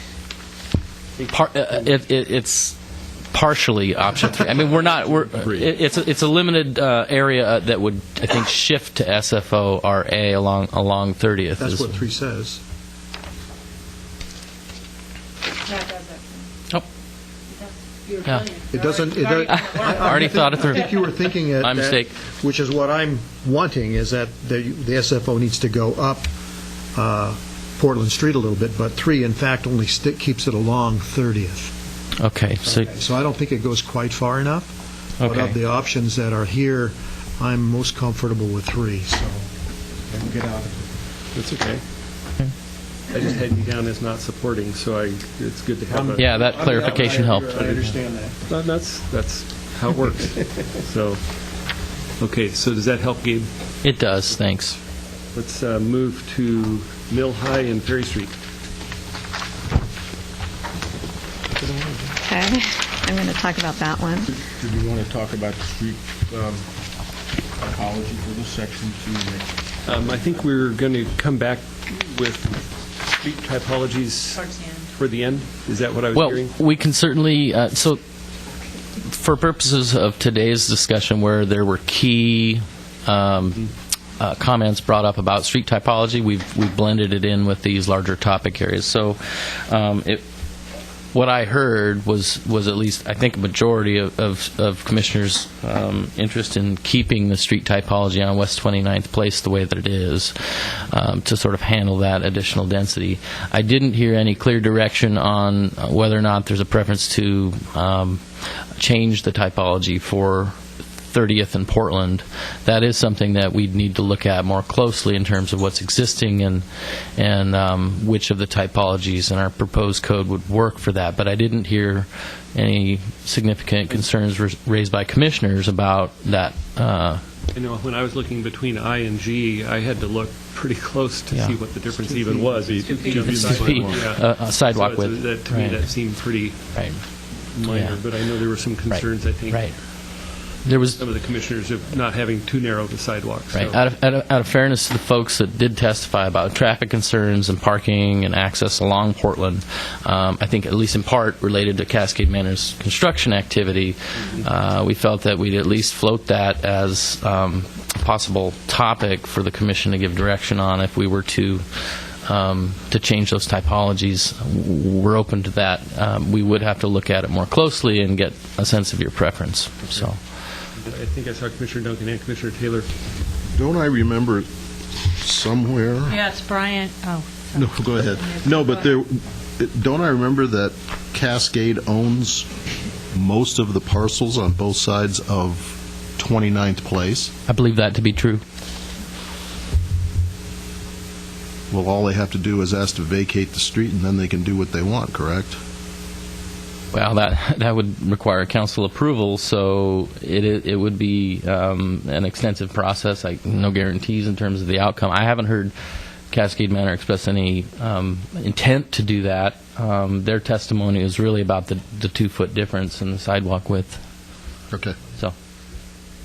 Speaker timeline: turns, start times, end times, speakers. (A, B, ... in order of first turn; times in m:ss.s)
0:01.2-0:01.8 A
0:01.3-0:02.8 B
0:03.3-0:12.0 B
0:04.8-0:05.7 C
0:11.6-0:12.6 D
0:15.7-0:16.4 E
0:17.5-0:19.0 E
0:18.7-0:26.3 D
0:19.4-0:22.1 B
0:26.9-0:31.7 D
0:32.2-0:32.9 B
0:32.7-0:39.5 D
0:35.2-0:35.6 B
0:40.0-0:40.9 D
0:41.4-0:41.8 A
0:43.1-0:51.2 A
0:45.9-0:48.4 D
0:46.2-0:47.6 B
0:52.2-0:53.5 A
0:53.8-0:54.8 B
0:55.3-0:58.3 A
1:02.2-1:04.3 F
1:04.6-1:06.6 G
1:07.6-1:09.4 G
1:09.8-1:14.4 A
1:14.5-1:14.8 E
1:14.9-1:16.5 A
1:16.1-1:18.0 B
1:19.0-1:23.6 B
1:24.2-1:30.2 B
1:31.1-1:48.2 B
1:48.8-1:50.5 B
1:51.1-1:56.6 B
1:57.2-2:07.2 B
2:07.5-2:16.9 A
2:11.3-2:11.6 B
2:12.3-2:14.0 G
2:13.5-2:16.1 B
2:16.7-2:18.0 B
2:17.4-2:19.7 A
2:18.9-2:21.0 B
2:21.0-2:23.8 A
2:23.5-2:50.2 B
2:50.8-2:52.9 A
2:53.5-2:54.5 C
2:55.0-2:56.3 C
2:56.1-2:58.9 E
2:57.5-3:02.5 C
3:03.1-3:07.3 C
3:07.5-3:08.4 B
3:11.7-3:15.6 C
3:16.9-3:25.7 B
3:26.3-3:34.0 B
3:34.7-3:35.0 C